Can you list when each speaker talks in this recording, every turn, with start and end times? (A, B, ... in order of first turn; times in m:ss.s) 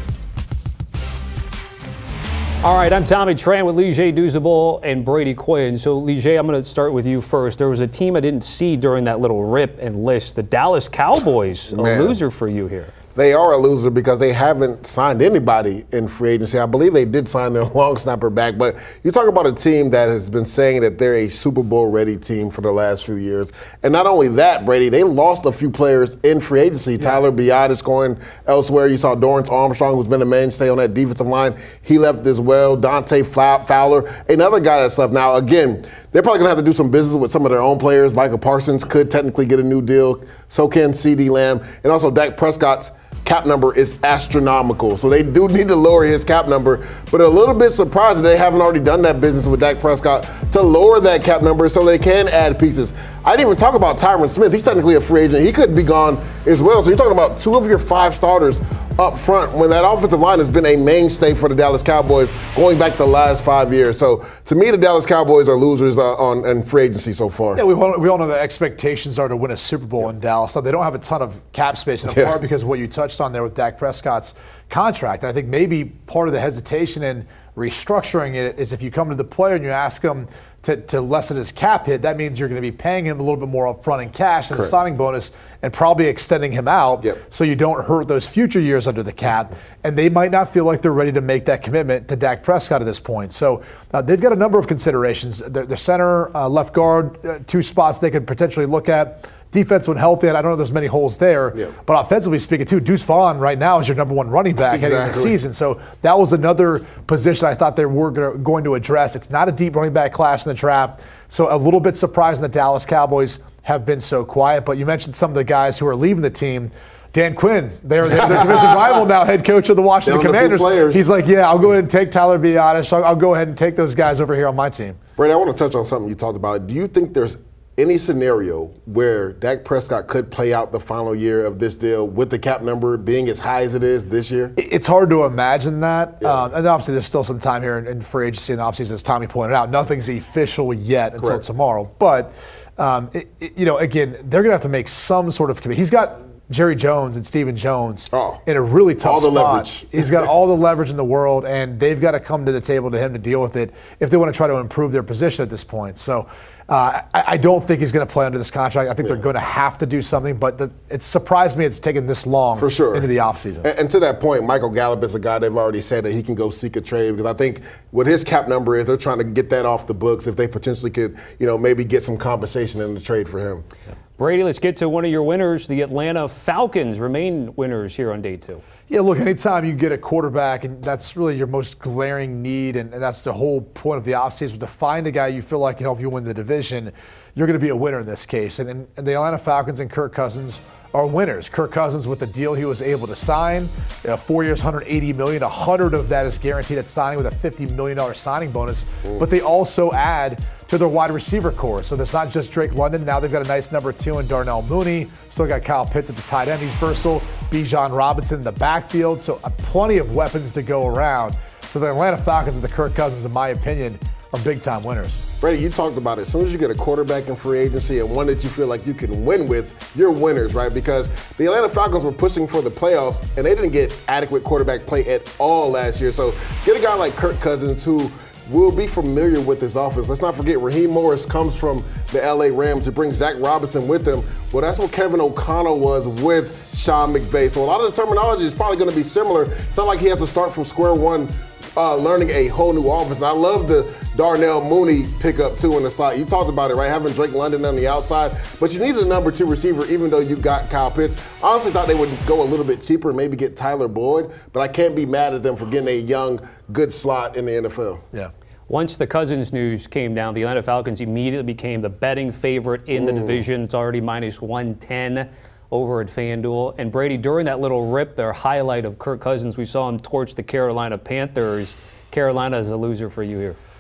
0:02.6-0:12.9 A
0:11.7-0:12.2 B
0:13.2-1:07.6 B
1:07.6-2:05.0 C
1:12.1-1:12.4 B
1:44.7-1:45.4 B
1:58.2-1:58.7 B
2:00.0-2:01.0 B
2:05.2-2:14.6 B
2:14.6-2:43.7 C
2:21.2-2:21.4 B
2:28.1-2:28.4 B
2:29.0-2:30.3 B
2:42.6-2:43.1 B
2:43.6-2:53.7 B
2:54.2-2:58.6 A
2:58.9-3:35.2 C
3:35.4-4:18.0 B
4:18.7-4:33.6 A
4:22.9-4:23.4 B